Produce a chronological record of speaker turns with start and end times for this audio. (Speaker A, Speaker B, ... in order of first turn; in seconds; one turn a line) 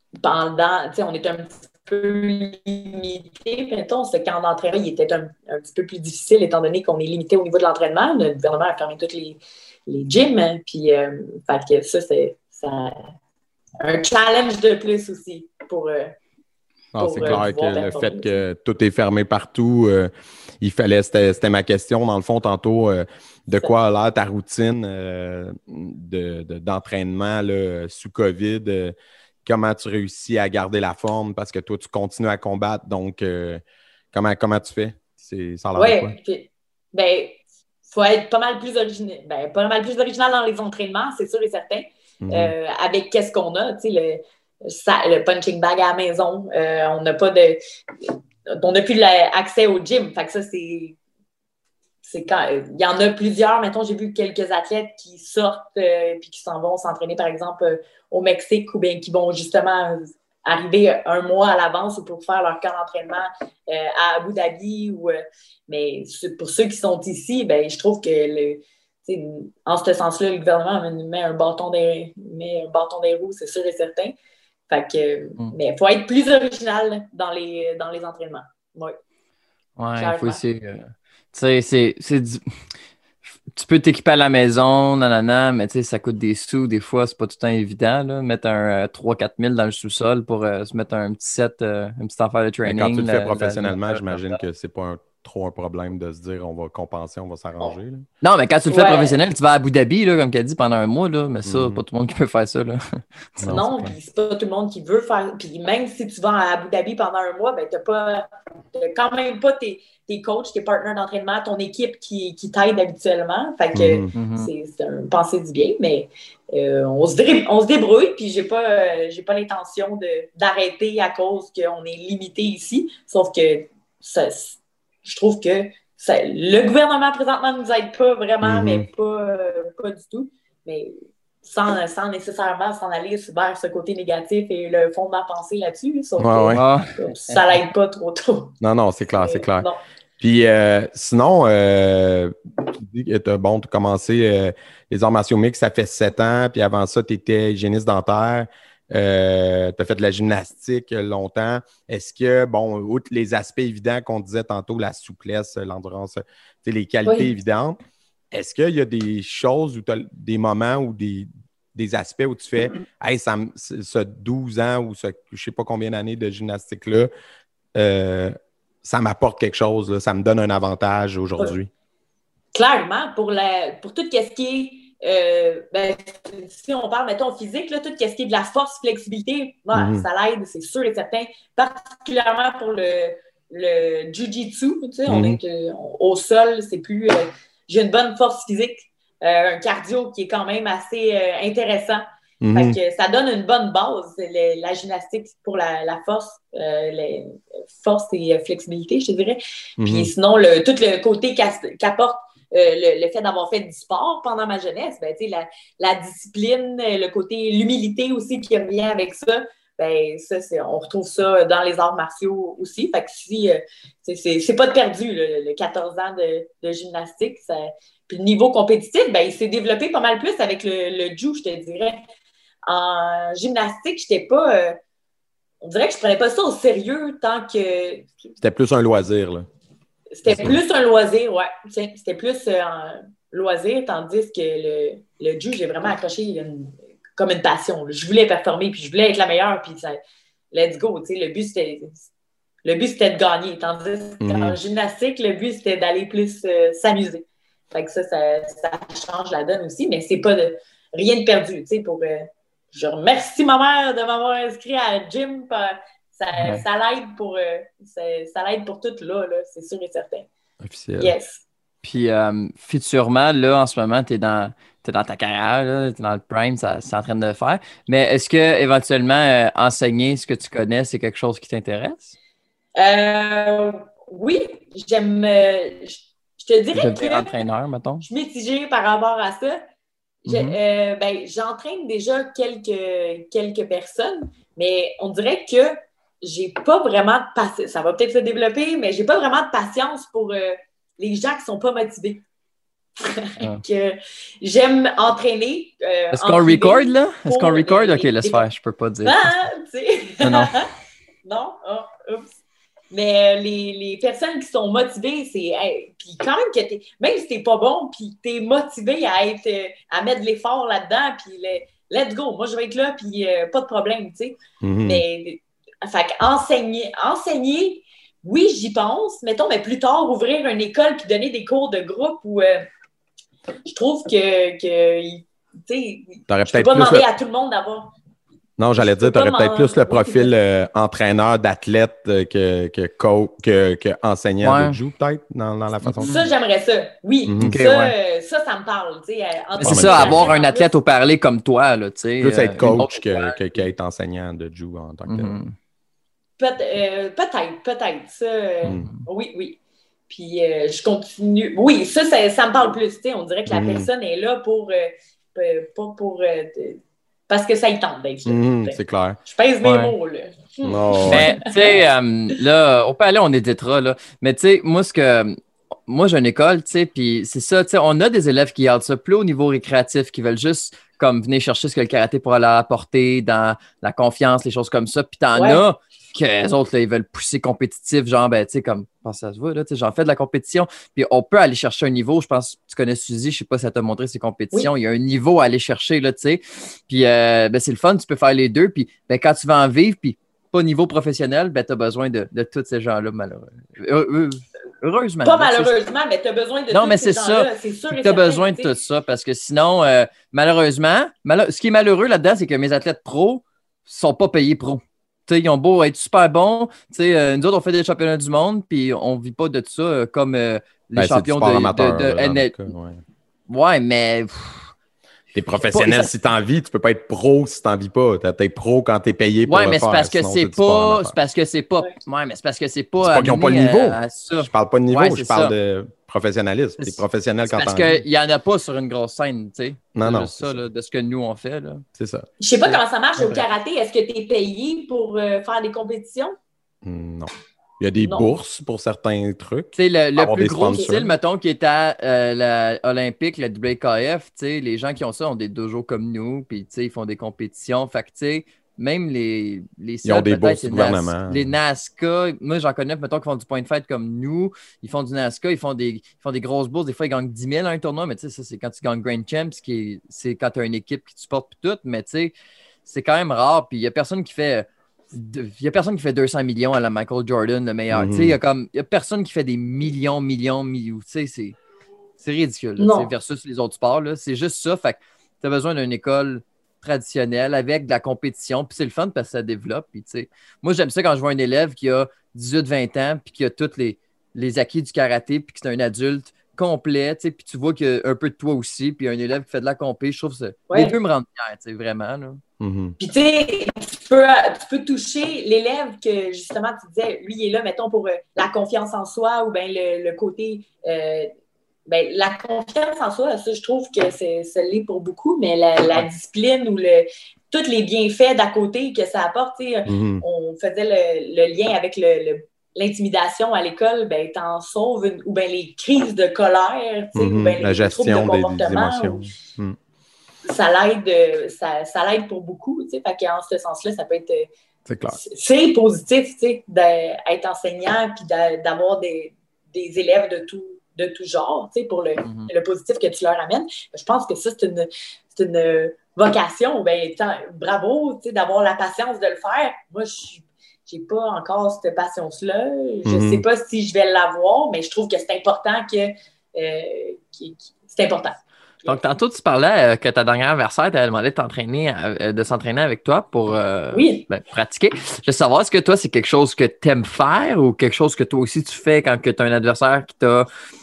Speaker A: 0.2-13.1
Speaker A: 13.8-16.1
Speaker B: 16.9-36.1
Speaker A: 17.0-18.4
Speaker A: 35.8-51.0
Speaker B: 42.2-42.5
Speaker A: 52.0-74.2
Speaker A: 74.7-79.0
Speaker C: 79.8-82.6
Speaker A: 80.0-80.4
Speaker C: 83.5-94.3
Speaker B: 92.7-98.1
Speaker C: 98.2-103.6
Speaker A: 98.7-99.2
Speaker B: 101.5-101.8
Speaker B: 103.4-103.9
Speaker A: 103.4-138.6
Speaker B: 113.7-114.1
Speaker C: 114.1-114.5
Speaker B: 128.4-128.9
Speaker B: 136.2-136.6
Speaker C: 136.5-137.4
Speaker B: 138.6-139.7
Speaker A: 139.2-139.8
Speaker B: 140.2-157.8
Speaker A: 157.1-157.3
Speaker B: 158.3-167.1
Speaker B: 167.8-171.7
Speaker A: 172.5-222.0
Speaker B: 179.7-180.1
Speaker B: 185.1-185.4
Speaker B: 192.4-192.8
Speaker B: 199.8-200.1
Speaker A: 222.7-224.8
Speaker A: 225.6-228.3
Speaker B: 228.4-229.5
Speaker A: 230.2-240.0
Speaker B: 230.3-230.6
Speaker A: 240.5-242.1
Speaker A: 242.7-260.3
Speaker B: 244.2-244.6
Speaker B: 260.6-261.1
Speaker A: 261.0-261.4
Speaker C: 261.8-272.1
Speaker A: 272.8-277.4
Speaker C: 276.8-278.1
Speaker A: 278.1-279.6
Speaker A: 280.3-292.2
Speaker C: 280.3-280.6
Speaker A: 293.0-298.4
Speaker C: 296.1-299.3
Speaker A: 299.0-300.7
Speaker C: 300.2-300.6
Speaker A: 301.2-302.4
Speaker A: 302.9-322.7
Speaker B: 314.6-315.0
Speaker A: 323.7-327.9
Speaker B: 326.3-327.1
Speaker B: 328.6-336.1
Speaker A: 328.8-330.3
Speaker C: 334.4-334.8
Speaker C: 335.8-336.3
Speaker A: 336.0-340.7
Speaker B: 337.2-337.6
Speaker C: 337.4-337.9
Speaker C: 339.6-343.4
Speaker B: 339.6-340.3
Speaker B: 342.2-345.4
Speaker C: 345.1-345.5
Speaker A: 346.4-361.8
Speaker C: 348.7-349.0
Speaker B: 353.5-353.9
Speaker B: 358.2-359.2
Speaker C: 359.6-359.9
Speaker B: 360.6-361.3
Speaker C: 361.1-365.4
Speaker C: 365.9-395.7
Speaker A: 375.4-375.6
Speaker A: 395.2-398.7
Speaker C: 396.7-412.6
Speaker B: 411.0-413.0
Speaker C: 413.5-414.7
Speaker B: 415.3-421.2
Speaker C: 415.7-416.1
Speaker C: 419.5-425.6
Speaker B: 423.0-428.0
Speaker C: 426.8-431.9
Speaker B: 430.0-430.6
Speaker B: 432.0-432.3
Speaker A: 432.4-436.3
Speaker C: 432.6-433.4
Speaker B: 436.8-441.1
Speaker A: 438.0-438.3
Speaker C: 439.8-462.3
Speaker B: 450.1-451.5
Speaker C: 462.9-471.6
Speaker B: 467.9-468.4
Speaker C: 472.2-492.4
Speaker A: 472.8-473.1
Speaker B: 492.6-493.0
Speaker A: 493.0-501.3
Speaker A: 501.9-519.3
Speaker B: 509.9-510.2
Speaker B: 517.1-519.8
Speaker A: 520.5-524.5
Speaker B: 524.9-525.2
Speaker A: 525.1-549.1
Speaker C: 532.2-532.5
Speaker B: 543.0-543.4
Speaker C: 548.9-560.5
Speaker A: 553.9-554.3